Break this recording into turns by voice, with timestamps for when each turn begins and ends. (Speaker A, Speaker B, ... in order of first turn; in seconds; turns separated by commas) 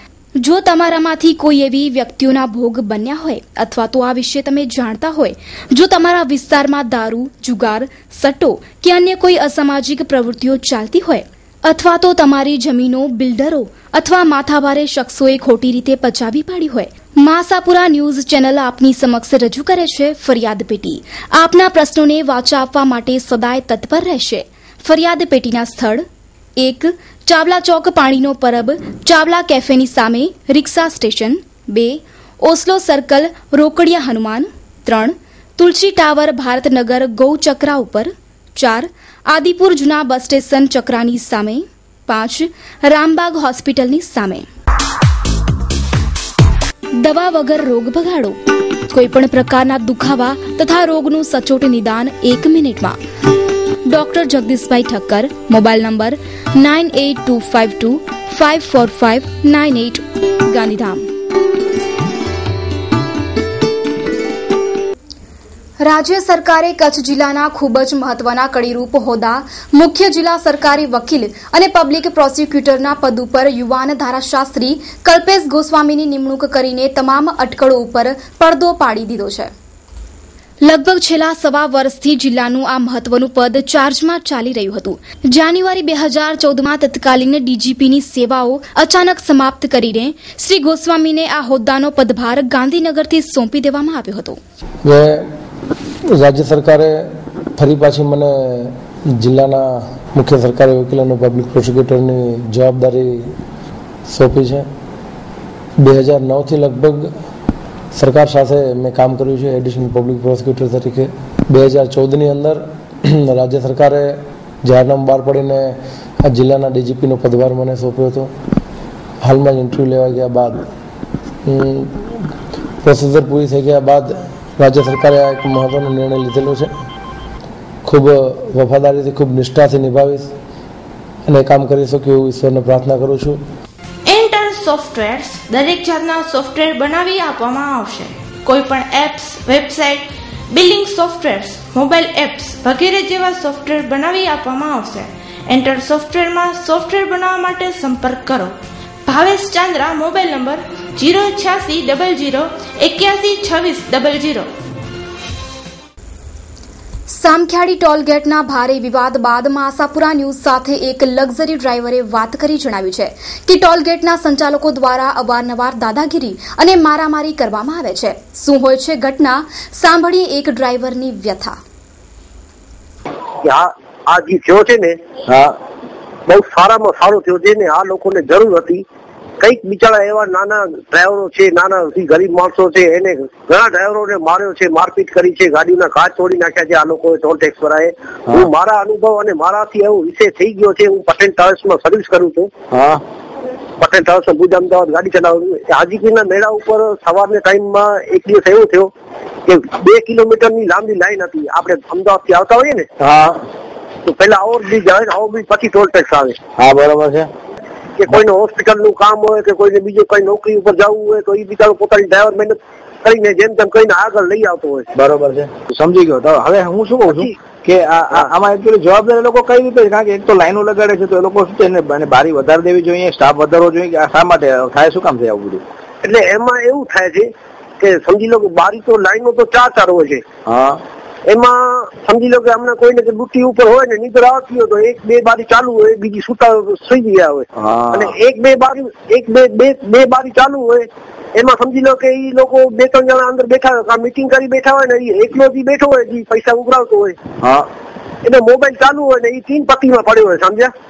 Speaker A: 0.4-26.0, Speaker A: 26.6-44.5, Speaker A: 47.0-48.4, Speaker A: 48.9-53.0, Speaker A: 53.9-61.1, Speaker A: 65.8-79.5, Speaker A: 80.7-94.4, Speaker B: 94.8-95.2, Speaker B: 96.2-97.0, Speaker B: 97.6-103.3, Speaker B: 104.1-104.7, Speaker B: 105.8-107.1, Speaker B: 107.9-112.6, Speaker B: 113.2-118.3, Speaker B: 119.2-120.6, Speaker B: 121.5-121.9, Speaker B: 122.8-126.7, Speaker B: 127.8-130.3, Speaker B: 131.3-133.4, Speaker C: 134.1-154.5, Speaker A: 157.1-171.6, Speaker D: 173.4-175.0, Speaker E: 175.3-175.6, Speaker D: 176.3-178.8, Speaker D: 179.4-192.5, Speaker E: 192.7-193.0, Speaker D: 193.8-198.9, Speaker D: 199.5-202.9, Speaker E: 203.0-203.4, Speaker D: 204.1-206.4, Speaker E: 206.6-207.3, Speaker D: 208.0-214.9, Speaker E: 214.9-225.6, Speaker D: 217.1-217.3, Speaker D: 226.0-227.3, Speaker D: 227.8-230.2, Speaker E: 230.5-230.8, Speaker D: 231.3-247.2, Speaker E: 237.5-238.1, Speaker E: 247.4-247.7, Speaker D: 248.2-250.7